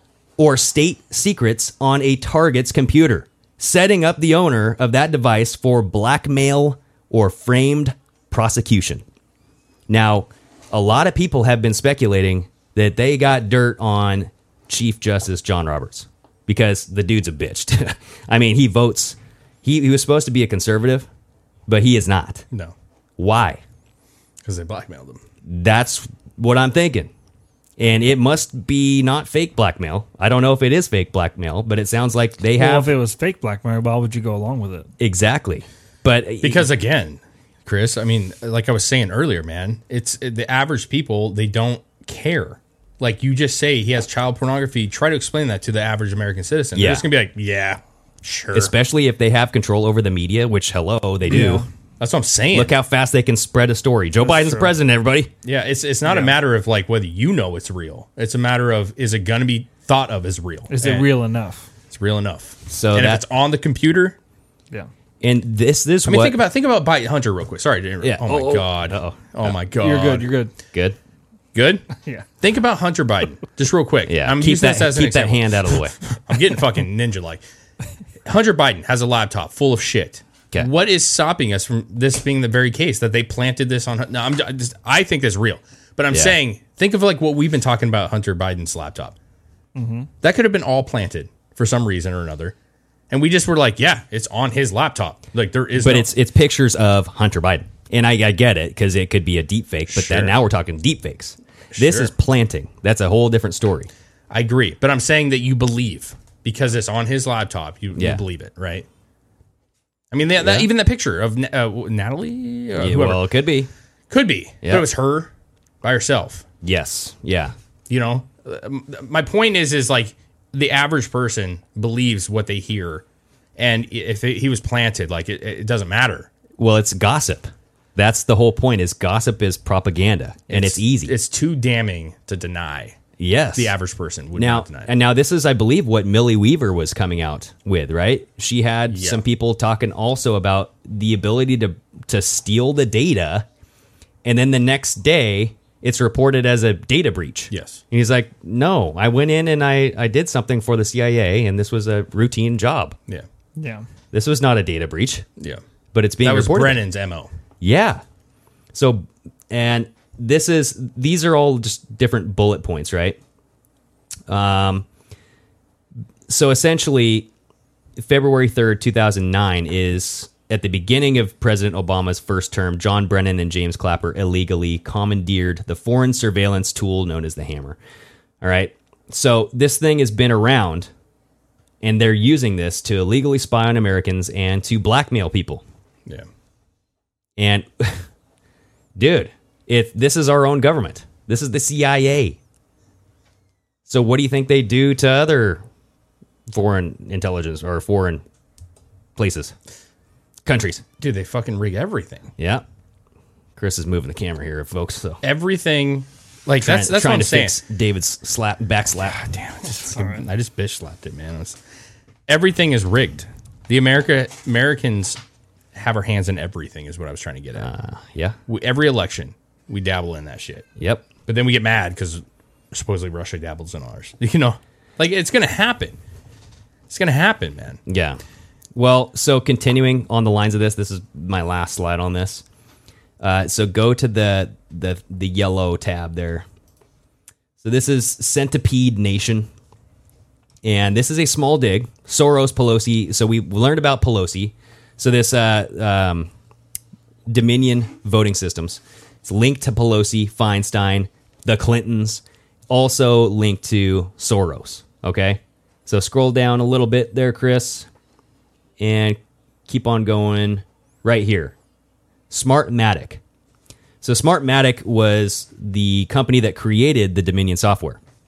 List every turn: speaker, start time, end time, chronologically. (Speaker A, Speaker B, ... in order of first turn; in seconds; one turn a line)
Speaker A: 0.4-9.0
Speaker A: 9.9-21.1
Speaker A: 21.7-22.4
Speaker A: 23.2-23.6
Speaker B: 24.4-25.2
Speaker A: 25.4-27.1
Speaker A: 27.8-32.9
Speaker C: 32.6-34.9
Speaker A: 35.0-36.7
Speaker B: 36.4-48.7
Speaker A: 46.7-47.1
Speaker A: 48.5-51.6
Speaker C: 51.3-51.6
Speaker B: 52.0-52.7
Speaker A: 52.5-55.3
Speaker B: 55.4-61.1
Speaker C: 56.1-56.3
Speaker C: 60.7-61.7
Speaker B: 61.9-64.2
Speaker A: 62.7-63.2
Speaker A: 65.2-66.4
Speaker B: 66.0-70.3
Speaker A: 68.0-69.5
Speaker C: 69.7-70.5
Speaker B: 71.5-71.8
Speaker B: 72.4-77.4
Speaker A: 74.0-76.0
Speaker B: 78.2-89.1
Speaker A: 86.1-86.4
Speaker C: 89.7-90.1
Speaker B: 90.2-92.5
Speaker B: 93.1-96.1
Speaker A: 95.7-103.9
Speaker B: 99.9-100.4
Speaker B: 101.7-102.1
Speaker B: 104.3-108.8
Speaker A: 108.0-108.2
Speaker B: 110.1-113.2
Speaker A: 110.4-110.7
Speaker A: 112.8-113.7
Speaker B: 114.1-115.3
Speaker A: 114.6-114.9
Speaker B: 115.8-116.4
Speaker A: 116.6-117.5
Speaker B: 117.9-123.0
Speaker B: 123.6-126.3
Speaker A: 126.6-131.1
Speaker B: 130.5-133.0
Speaker A: 133.2-133.7
Speaker B: 133.5-134.9
Speaker A: 134.3-143.4
Speaker B: 138.9-139.2
Speaker A: 144.2-153.0
Speaker B: 147.5-147.8
Speaker C: 153.6-153.8
Speaker A: 154.1-155.2
Speaker A: 155.9-156.8
Speaker B: 156.2-157.3
Speaker A: 157.6-158.0
Speaker A: 158.7-163.2
Speaker A: 164.3-164.8
Speaker A: 166.3-167.3
Speaker A: 168.0-177.8
Speaker A: 178.4-180.9
Speaker A: 181.8-185.6
Speaker A: 187.4-188.0
Speaker A: 188.9-192.4
Speaker A: 193.9-195.6
Speaker A: 196.5-198.2
Speaker A: 199.2-199.5
Speaker A: 200.4-200.8
Speaker B: 201.0-202.3
Speaker A: 202.4-202.6
Speaker A: 203.6-205.2
Speaker B: 205.2-207.6
Speaker A: 206.6-209.2
Speaker B: 209.1-211.6
Speaker C: 209.9-210.2
Speaker B: 212.3-215.2
Speaker B: 215.7-217.7
Speaker A: 217.5-218.4
Speaker B: 218.5-220.7
Speaker A: 220.8-221.1
Speaker B: 221.2-226.0
Speaker B: 226.9-227.8
Speaker A: 227.9-228.2
Speaker A: 228.7-232.4
Speaker A: 233.2-236.4
Speaker A: 237.6-239.5
Speaker A: 240.6-246.3
Speaker A: 247.3-257.9
Speaker A: 258.8-261.5
Speaker A: 262.3-263.2
Speaker A: 264.0-268.0